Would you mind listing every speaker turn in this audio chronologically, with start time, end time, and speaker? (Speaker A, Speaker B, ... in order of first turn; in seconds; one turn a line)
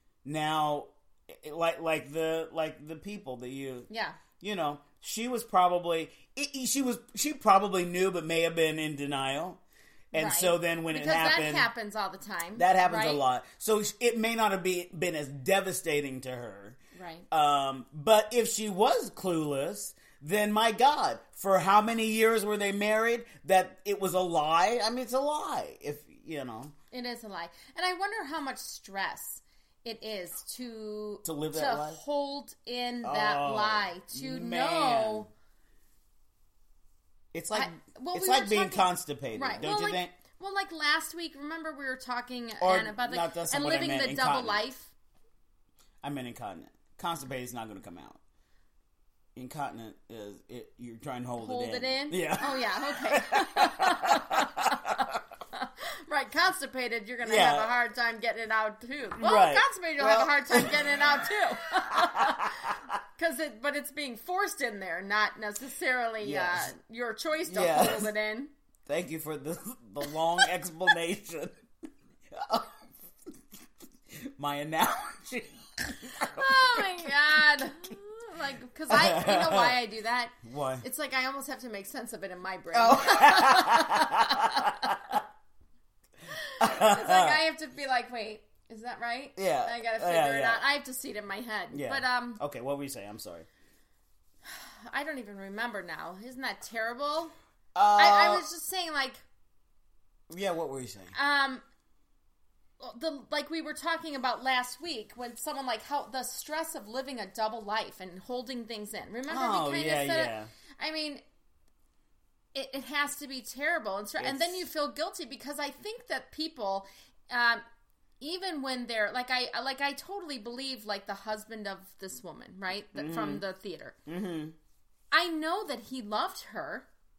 Speaker A: 0.2-3.9
Speaker B: 3.9-4.2
Speaker A: 4.4-9.6
Speaker A: 10.1-11.7
Speaker B: 10.1-13.2
Speaker A: 12.6-16.8
Speaker B: 16.9-17.3
Speaker A: 17.3-26.7
Speaker B: 26.9-35.3
Speaker A: 31.2-32.0
Speaker A: 33.0-35.3
Speaker A: 37.3-40.1
Speaker B: 37.5-44.9
Speaker A: 42.6-44.6
Speaker A: 46.0-48.2
Speaker A: 49.4-55.1
Speaker B: 51.4-68.5
Speaker A: 57.2-57.7
Speaker A: 59.2-60.9
Speaker A: 61.9-62.8
Speaker A: 66.2-66.7
Speaker A: 67.5-68.1
Speaker A: 68.9-71.6
Speaker A: 72.3-72.8
Speaker A: 74.1-77.1
Speaker B: 76.3-85.0
Speaker A: 78.9-79.8
Speaker A: 80.4-80.8
Speaker A: 82.7-85.2
Speaker B: 86.3-92.4
Speaker A: 86.6-87.4
Speaker A: 89.4-90.6
Speaker A: 91.7-93.5
Speaker B: 94.4-97.3
Speaker A: 97.8-98.5
Speaker B: 98.0-99.2
Speaker A: 100.3-101.1
Speaker B: 101.1-101.6
Speaker B: 102.8-111.2
Speaker A: 109.3-110.5
Speaker B: 112.5-117.6
Speaker A: 114.2-114.6
Speaker B: 118.2-124.0
Speaker A: 122.9-123.4
Speaker A: 124.1-124.6
Speaker B: 125.1-126.9